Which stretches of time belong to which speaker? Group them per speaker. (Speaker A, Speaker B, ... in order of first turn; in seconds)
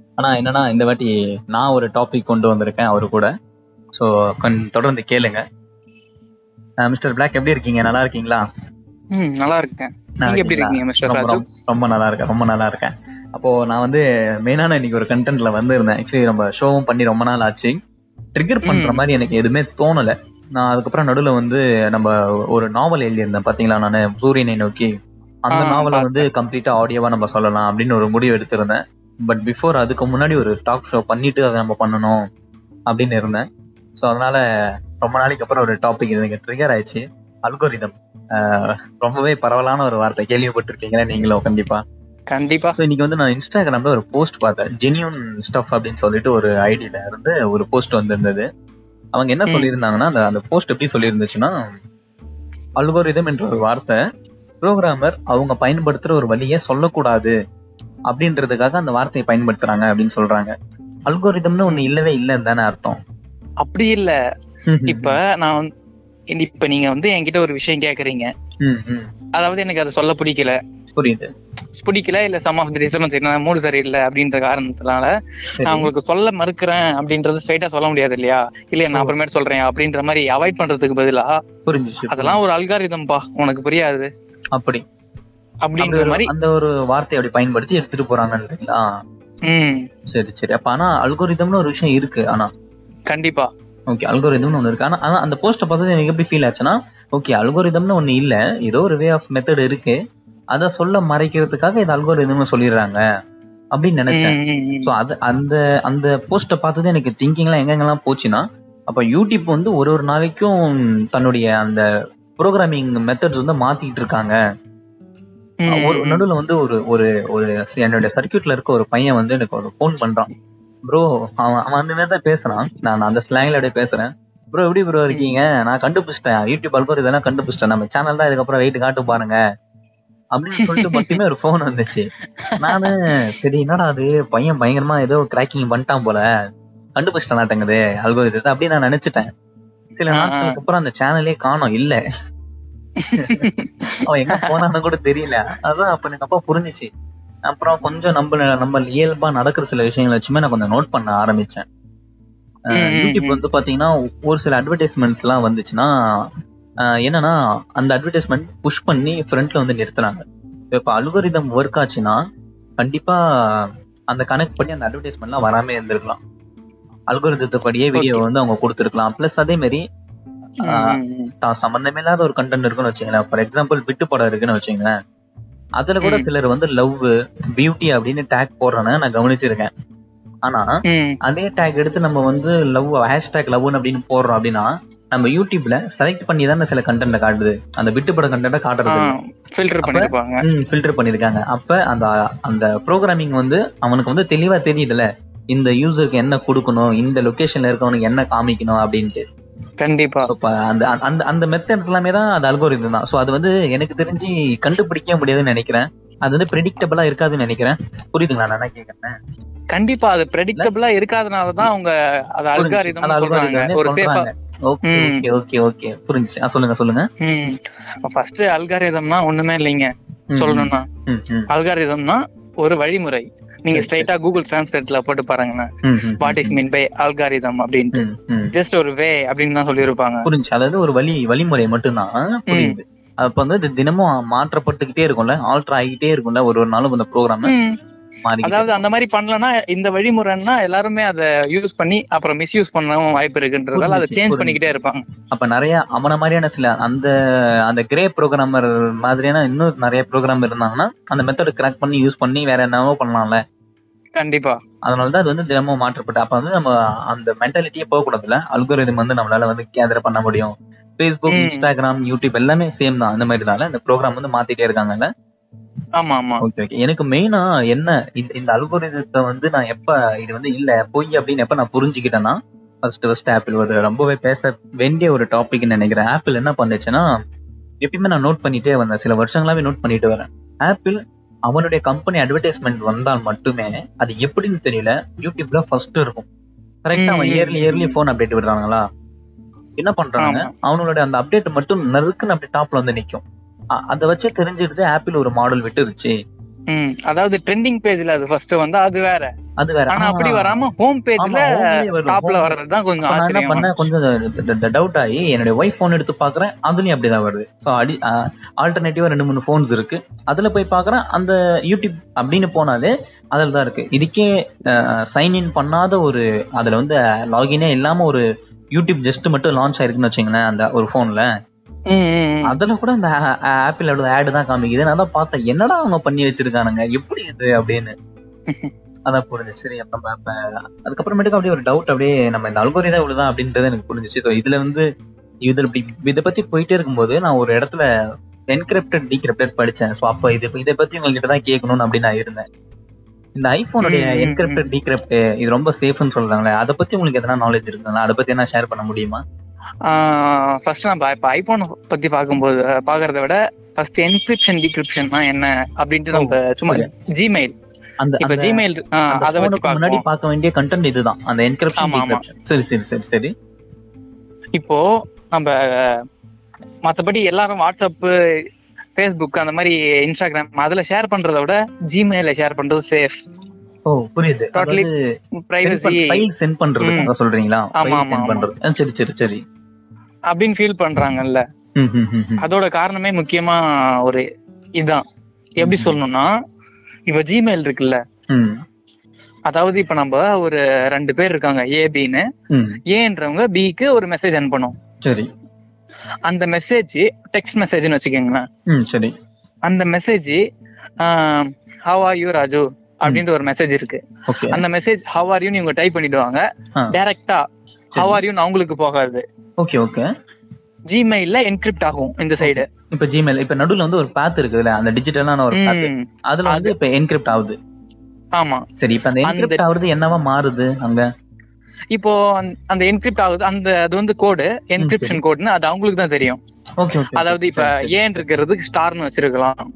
Speaker A: 0.2-3.3, 4.0-5.4, 6.8-8.4, 10.2-17.8, 18.4-24.9, 25.5-32.2, 32.9-33.5, 34.0-34.4, 35.0-41.8, 42.8-48.5, 49.1-51.5, 52.8-54.0, 54.6-57.3, 58.1-60.5, 61.1-63.0, 64.7-65.2, 68.6-69.1, 71.0-71.3, 75.6-75.9, 81.7-82.4, 84.5-84.8, 85.8-88.8, 90.1-92.5, 93.9-100.0, 100.5-103.0, 103.7-111.8, 112.4-114.4, 115.7-120.3, 120.9-129.4, 130.3-136.2, 137.0-139.3, 140.0-142.0, 144.0-146.9, 147.5-151.7, 152.8-155.9, 157.0-162.2, 162.8-166.2, 167.1-169.8, 170.7-174.9, 175.8-179.7, 181.3-189.2, 189.8-199.2, 200.3-209.1, 212.6-217.1, 220.3-221.5, 223.7-224.1, 225.8-226.6, 227.9-228.5, 230.3-237.5, 238.2-238.8, 243.8-244.7, 245.3-247.1, 247.7-253.4, 254.8-265.1, 266.4-277.1, 277.8-286.3, 286.9-288.8, 289.8-293.2, 293.8-296.1, 299.6-300.7, 301.2-318.2, 318.8-321.3, 322.5-327.9, 329.1-334.8, 335.4-337.8, 338.5-342.4, 343.4-349.2, 356.1-356.9, 358.0-363.3, 373.9-374.9, 375.6-379.4, 381.8-382.5, 385.6-386.0, 388.3-388.6, 392.5-392.8, 398.7-399.1, 404.3-404.6, 407.9-408.2, 409.6-410.1, 412.4-417.6, 418.8-421.1, 424.8-425.2, 426.8-428.2
Speaker B: 9.1-11.4, 18.6-19.0, 25.5-26.3, 42.3-42.8, 63.6-64.1, 64.9-65.7, 66.3-68.3, 69.4-70.6, 71.8-75.1, 75.6-81.3, 82.1-84.1, 85.7-86.3, 89.5-89.8, 93.1-93.5, 104.1-104.9, 115.6-116.2, 130.6-131.1, 132.5-132.9, 140.1-140.6, 143.0-144.5, 152.7-153.4, 168.0-168.2, 170.7-171.3, 176.0-176.3, 180.9-181.2, 188.9-190.4, 199.8-200.3, 209.7-214.3, 214.9-215.2, 217.2-220.8, 221.5-225.7, 226.2-228.0, 228.5-230.3, 232.5-232.8, 237.4-237.7, 238.4-245.0, 254.2-254.6, 261.3-261.7, 266.0-266.4, 287.0-288.0, 290.2-290.5, 296.7-299.3, 299.9-303.8, 321.9-322.6, 343.8-344.6, 349.9-357.5, 358.2-360.0, 361.8-362.2, 365.3-365.9, 366.9-368.1, 369.0-373.2, 374.6-374.9, 375.5-376.2, 376.8-377.1, 377.8-378.4, 380.3-381.4, 382.4-384.2, 385.6-386.3, 387.1-388.0, 389.5-392.2, 392.9-394.7, 396.3-398.4, 399.7-400.4, 401.0-404.0, 404.5-407.4, 408.0-409.2, 410.9-412.6, 415.5-416.7, 418.4-418.6, 419.2-419.6, 421.9-426.4, 427.2-429.6